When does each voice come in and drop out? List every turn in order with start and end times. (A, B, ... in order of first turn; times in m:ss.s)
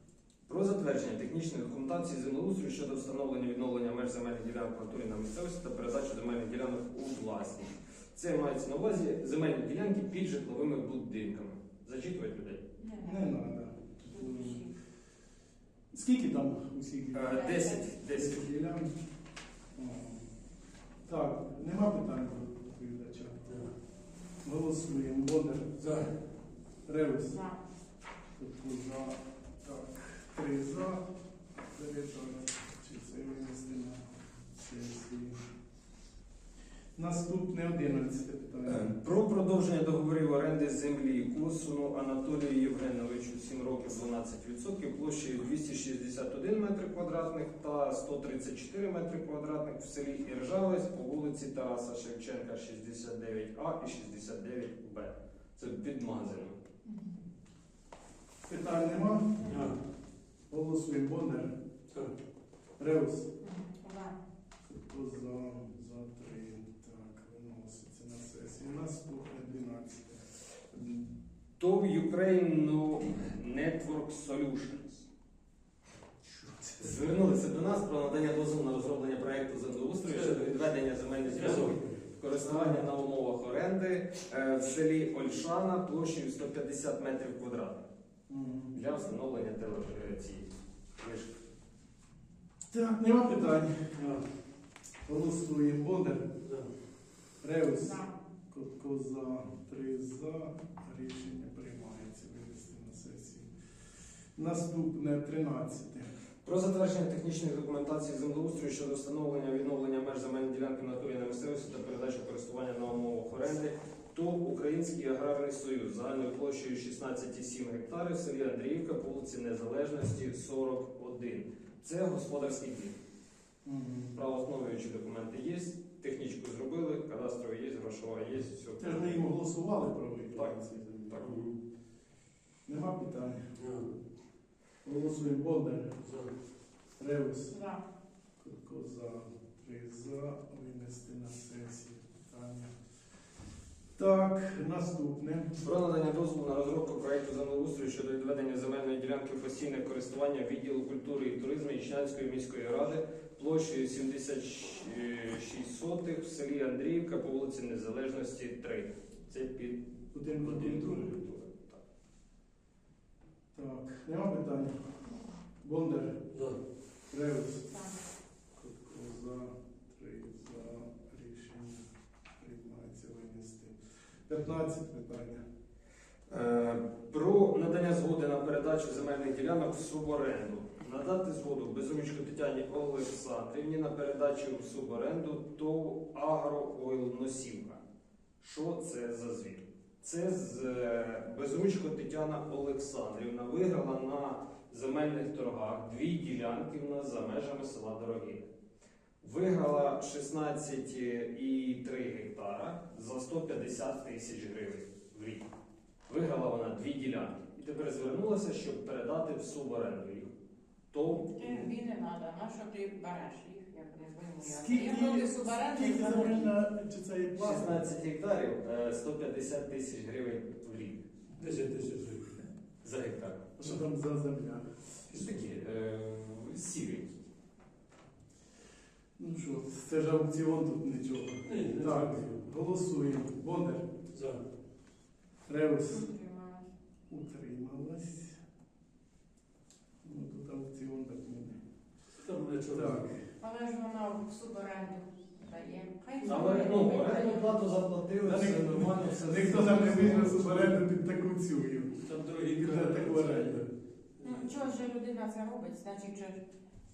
0:00.5-0:12.6 A
0:12.8-0:13.2 B
0:13.0-0:14.6 C
0:14.1-0:14.7 B
0:15.9-0:17.5 C
0:17.1-0:18.4 A
0:17.3-0:17.9 B
0:18.1-0:18.9 C
0:19.8-0:20.3 C
0:21.1-0:23.5 C
0:24.4-0:25.7 C
0:25.8-0:26.1 D
0:26.9-0:27.4 C
0:27.3-0:27.6 B
0:28.4-0:35.4 C
0:37.0-0:39.0 C
0:38.6-0:56.6 A
0:56.8-0:57.2 B
0:58.4-0:59.7 C
0:59.4-0:59.8 D
1:00.5-1:01.6 C
1:02.8-1:03.3 C
1:03.4-1:04.2 B
1:04.6-1:10.2 C
1:11.6-1:15.1 A
1:16.8-1:27.8 A
1:20.1-1:20.6 D
1:21.2-1:22.0 D
1:22.5-1:22.8 C
1:28.3-1:28.7 C
1:28.7-1:31.4 A
1:32.7-1:34.1 C
1:34.0-1:34.2 D
1:35.1-1:36.3 C
1:36.4-1:36.7 D
1:37.4-1:43.5 C
1:37.8-1:38.1 B
1:44.4-1:46.0 C
1:46.4-2:03.0 A
2:03.6-2:04.1 C
2:04.1-2:09.2 A
2:08.8-2:11.2 C
2:11.1-2:11.4 A
2:11.2-2:11.6 D
2:12.7-2:13.4 C
2:13.6-2:13.9 D
2:14.8-2:15.9 C
2:16.0-2:16.3 D
2:17.0-2:17.6 C
2:17.5-2:17.8 B
2:18.4-2:22.7 C
2:24.0-2:25.5 C
2:25.6-2:39.9 A
2:40.1-2:41.1 C
2:40.4-2:41.0 D
2:40.5-2:41.8 A
2:43.5-2:44.7 C
2:45.6-2:46.2 C
2:46.3-2:46.6 D
2:47.1-2:47.7 C
2:47.7-2:48.0 B
2:48.6-2:51.9 C
2:52.4-2:55.4 C
2:56.3-3:07.8 A
3:08.4-3:18.5 A
3:19.2-3:25.4 A
3:26.1-3:30.3 A
3:30.9-3:31.7 A
3:31.2-3:36.5 B
3:34.4-3:37.8 C
3:37.4-3:41.1 A
3:41.4-3:42.3 D
3:42.8-3:43.5 A
3:43.6-3:44.7 C
3:45.1-3:47.1 A
3:49.2-3:53.9 C
3:51.5-3:52.2 D
3:54.1-3:54.4 D
3:55.5-3:56.1 C
3:55.9-3:56.7 B
3:57.1-3:58.4 C
4:00.0-4:01.6 C
4:02.2-4:03.0 D
4:02.7-4:03.2 C
4:03.4-4:07.6 B
4:06.2-4:06.5 D
4:06.2-4:10.3 A
4:08.2-4:12.0 C
4:09.4-4:10.8 D
4:12.0-4:13.7 D
4:12.6-4:13.7 C
4:14.2-4:14.6 D
4:14.2-4:16.4 B